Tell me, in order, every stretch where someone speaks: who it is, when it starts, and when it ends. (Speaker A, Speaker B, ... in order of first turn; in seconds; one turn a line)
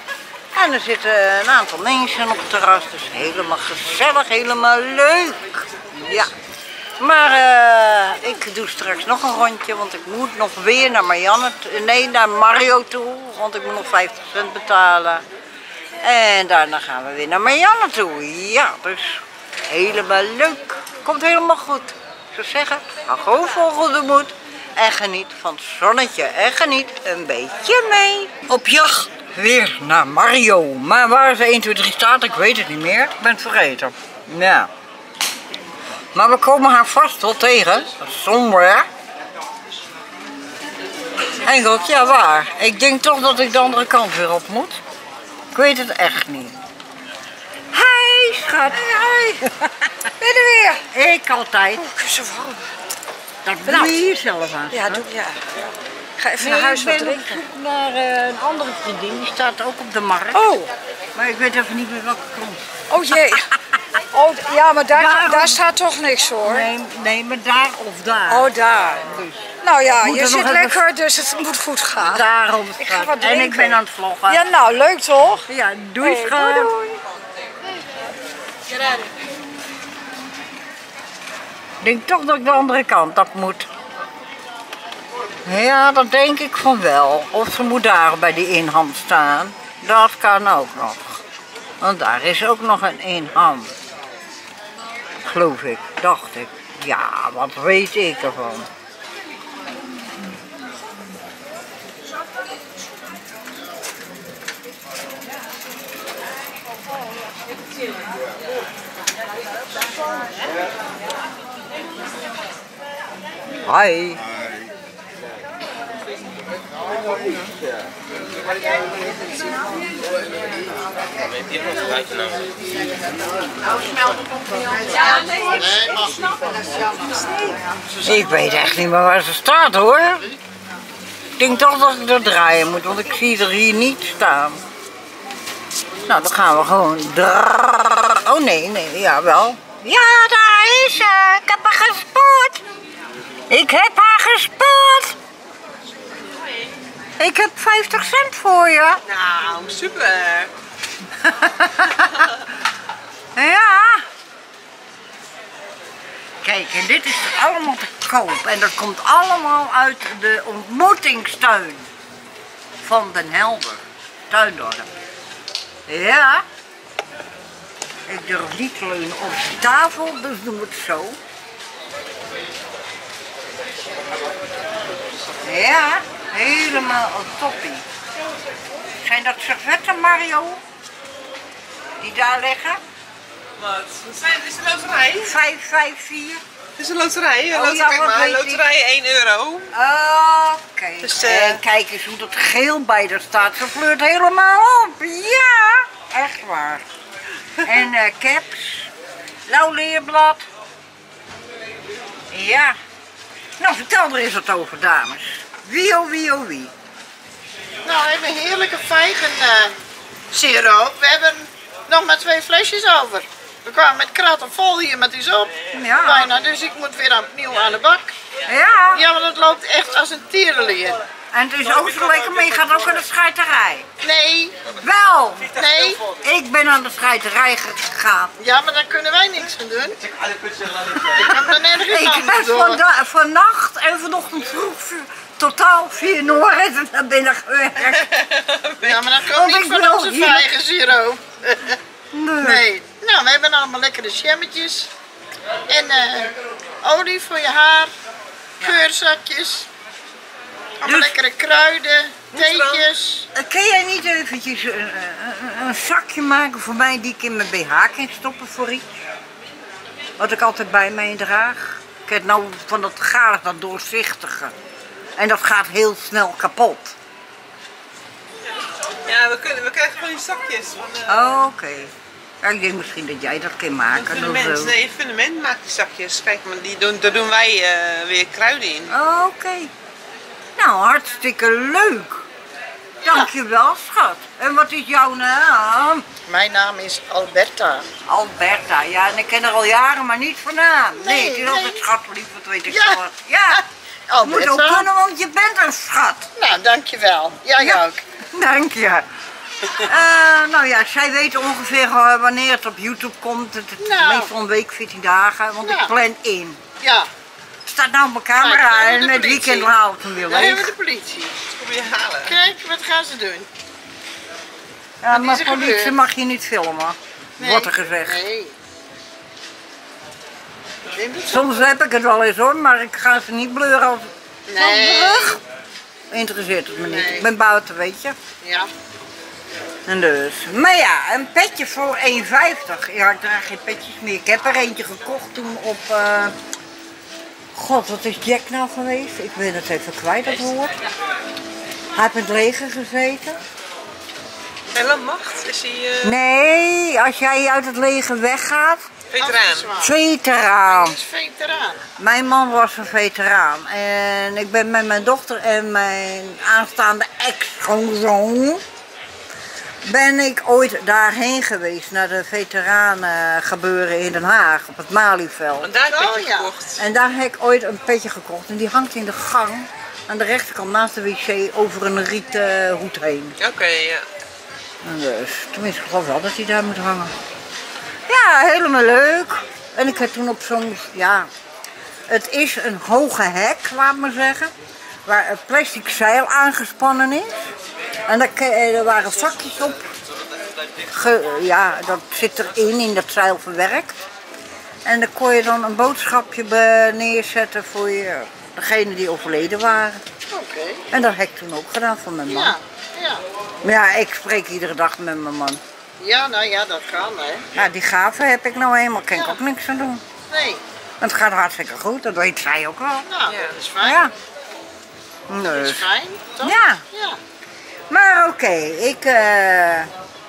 Speaker A: 0.6-6.3
Speaker A: 7.0-15.2
Speaker A: 16.0-34.7
Speaker A: 36.1-38.9
Speaker A: 41.3-44.8
Speaker A: 45.5-46.6
Speaker A: 47.7-49.9
Speaker B: 48.9-49.4
Speaker B: 50.2-50.8
Speaker A: 50.9-51.9
Speaker B: 51.8-52.6
Speaker A: 53.5-55.1
Speaker B: 53.7-54.0
Speaker B: 54.7-55.4
Speaker B: 56.2-57.4
Speaker A: 56.4-60.6
Speaker B: 60.3-60.7
Speaker A: 61.1-63.8
Speaker B: 62.9-63.5
Speaker B: 64.1-66.7
Speaker A: 64.8-65.7
Speaker A: 66.4-70.8
Speaker B: 68.3-69.1
Speaker B: 69.6-72.3
Speaker A: 72.0-74.5
Speaker B: 72.8-75.5
Speaker A: 75.5-76.7
Speaker B: 76.0-77.0
Speaker A: 81.8-83.7
Speaker A: 85.5-91.2
Speaker A: 91.8-93.7
Speaker A: 95.2-98.7
Speaker A: 113.7-114.2
Speaker C: 124.8-126.4
Speaker A: 128.0-130.3
Speaker A: 131.4-134.6
Speaker A: 136.0-142.6
Speaker A: 143.5-145.2
Speaker A: 147.2-149.0
Speaker D: 149.1-150.5
Speaker A: 151.2-152.3
Speaker A: 153.4-154.1
Speaker A: 156.4-161.9
Speaker A: 162.8-164.9
Speaker A: 165.9-166.4
Speaker A: 168.1-171.2
Speaker A: 175.4-177.9
Speaker A: 179.0-180.6
Speaker A: 182.0-182.8
Speaker D: 183.6-185.4
Speaker A: 185.2-186.4
Speaker D: 186.8-189.7
Speaker A: 187.5-188.7
Speaker A: 189.7-196.9
Speaker D: 191.0-191.6
Speaker A: 197.6-198.9
Speaker A: 199.5-200.4
Speaker A: 202.3-202.8
Speaker A: 203.6-206.7
Speaker C: 207.8-209.7
Speaker C: 210.3-218.1
Speaker A: 215.7-216.3
Speaker A: 218.5-219.1
Speaker C: 218.9-221.0
Speaker A: 221.3-223.9
Speaker C: 224.0-224.6
Speaker A: 224.8-225.5
Speaker C: 225.5-226.0
Speaker A: 226.1-228.3
Speaker C: 228.4-230.0
Speaker A: 230.8-238.1
Speaker C: 231.1-232.8
Speaker D: 237.8-239.2
Speaker C: 238.8-241.8
Speaker A: 239.2-240.5
Speaker A: 242.1-242.6
Speaker C: 242.4-244.9
Speaker C: 245.7-247.9
Speaker C: 248.6-249.7
Speaker C: 250.8-253.3
Speaker A: 250.8-251.1
Speaker D: 252.4-252.9
Speaker A: 253.3-259.0
Speaker A: 260.2-264.6
Speaker A: 265.2-267.0
Speaker D: 269.1-271.3
Speaker A: 271.1-274.8
Speaker D: 273.9-278.9
Speaker A: 278.9-279.7
Speaker A: 280.6-282.3
Speaker A: 283.1-286.1
Speaker C: 286.3-287.9
Speaker A: 288.1-293.6
Speaker C: 291.0-291.8
Speaker C: 292.7-293.0
Speaker C: 293.5-294.9
Speaker A: 294.2-296.3
Speaker C: 296.4-298.0
Speaker A: 298.3-299.1
Speaker A: 299.6-306.6
Speaker C: 303.8-304.3
Speaker C: 305.6-305.9
Speaker C: 306.8-307.1
Speaker A: 307.7-310.7
Speaker C: 308.4-309.7
Speaker C: 310.3-311.4
Speaker D: 311.4-312.4
Speaker C: 312.2-313.5
Speaker A: 315.0-318.2
Speaker C: 315.1-316.0
Speaker C: 317.4-318.5
Speaker C: 320.9-321.6
Speaker A: 321.3-325.4
Speaker C: 324.5-325.4
Speaker A: 326.1-328.2
Speaker C: 326.9-327.2
Speaker C: 328.4-328.7
Speaker A: 329.9-336.4
Speaker A: 337.5-340.8
Speaker A: 341.9-343.4
Speaker D: 344.7-346.1
Speaker A: 346.0-348.9
Speaker D: 349.1-349.7
Speaker C: 349.2-349.9
Speaker A: 349.8-351.0
Speaker C: 350.6-351.8
Speaker A: 352.0-358.6
Speaker A: 359.8-365.7
Speaker D: 365.6-366.8
Speaker C: 365.9-366.5
Speaker A: 366.8-373.4
Speaker D: 373.4-374.1
Speaker A: 374.8-377.1
Speaker A: 378.1-381.3
Speaker A: 382.1-384.5
Speaker A: 385.1-387.3
Speaker A: 388.1-389.8
Speaker A: 390.9-394.0
Speaker A: 394.9-400.0
Speaker C: 400.3-400.9
Speaker A: 400.9-402.6
Speaker C: 402.3-403.2
Speaker A: 403.6-405.6
Speaker C: 406.0-407.5
Speaker A: 407.5-410.0
Speaker C: 410.3-410.6
Speaker A: 411.0-413.1
Speaker C: 413.1-414.0
Speaker D: 413.3-413.6
Speaker A: 413.8-414.1
Speaker A: 415.3-415.9
Speaker C: 415.5-417.2
Speaker A: 416.4-416.9
Speaker A: 417.9-419.9